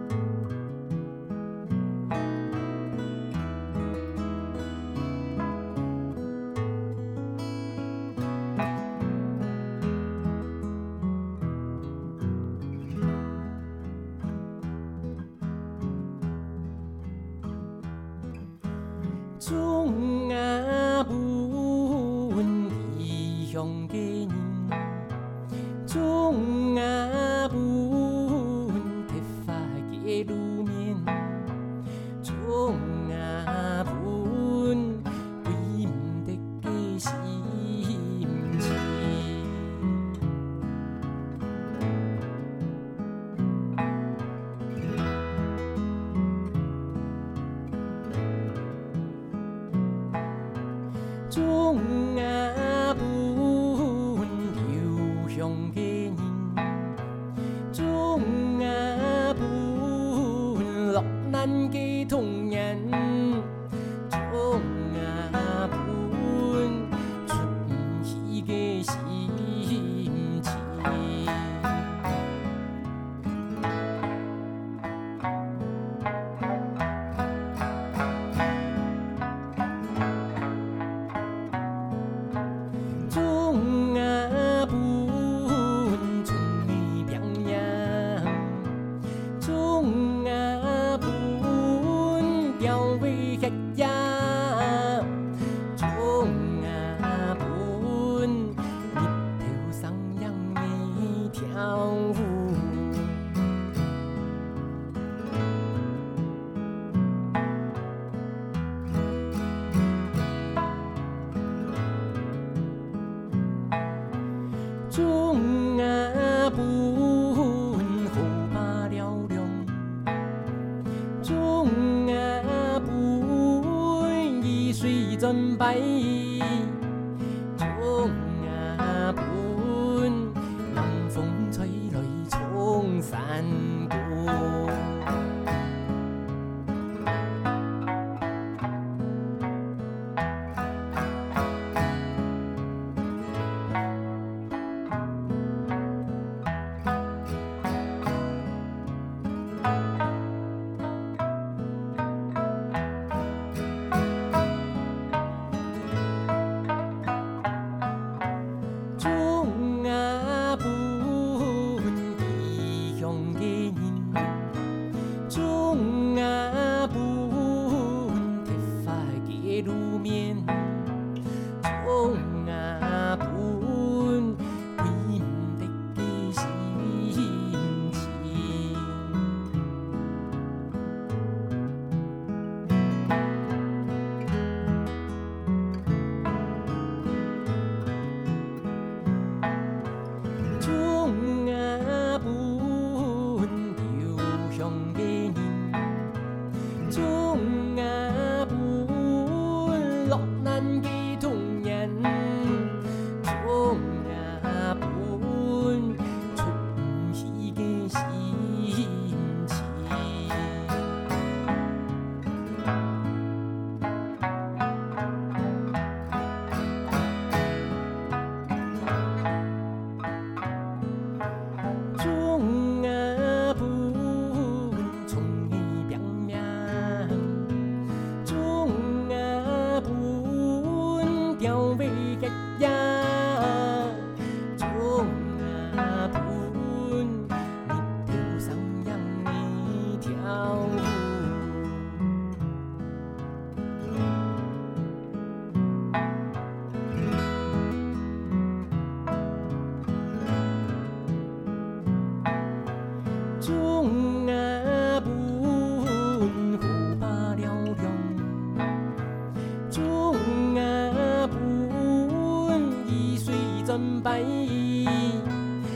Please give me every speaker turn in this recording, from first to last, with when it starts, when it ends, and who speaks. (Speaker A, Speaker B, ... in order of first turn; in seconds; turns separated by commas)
Speaker A: 19.4-25.1, Speaker A: 25.8-31.6, Speaker A: 32.2-39.9, Speaker A: 51.3-57.0, Speaker A: 57.7-63.6, Speaker A: 64.1-71.8, Speaker A: 83.0-88.8, Speaker A: 89.4-103.2, Speaker A: 114.9-120.1, Speaker A: 121.2-126.8, Speaker A: 127.5-135.1, Speaker A: 159.0-164.5, Speaker A: 165.3-171.0, Speaker A: 171.6-179.3, Speaker A: 190.6-196.1, Speaker A: 196.8-210.8, Speaker A: 221.9-227.6, Speaker A: 228.2-242.0, Speaker A: 253.4-258.7, Speaker A: 259.7-265.4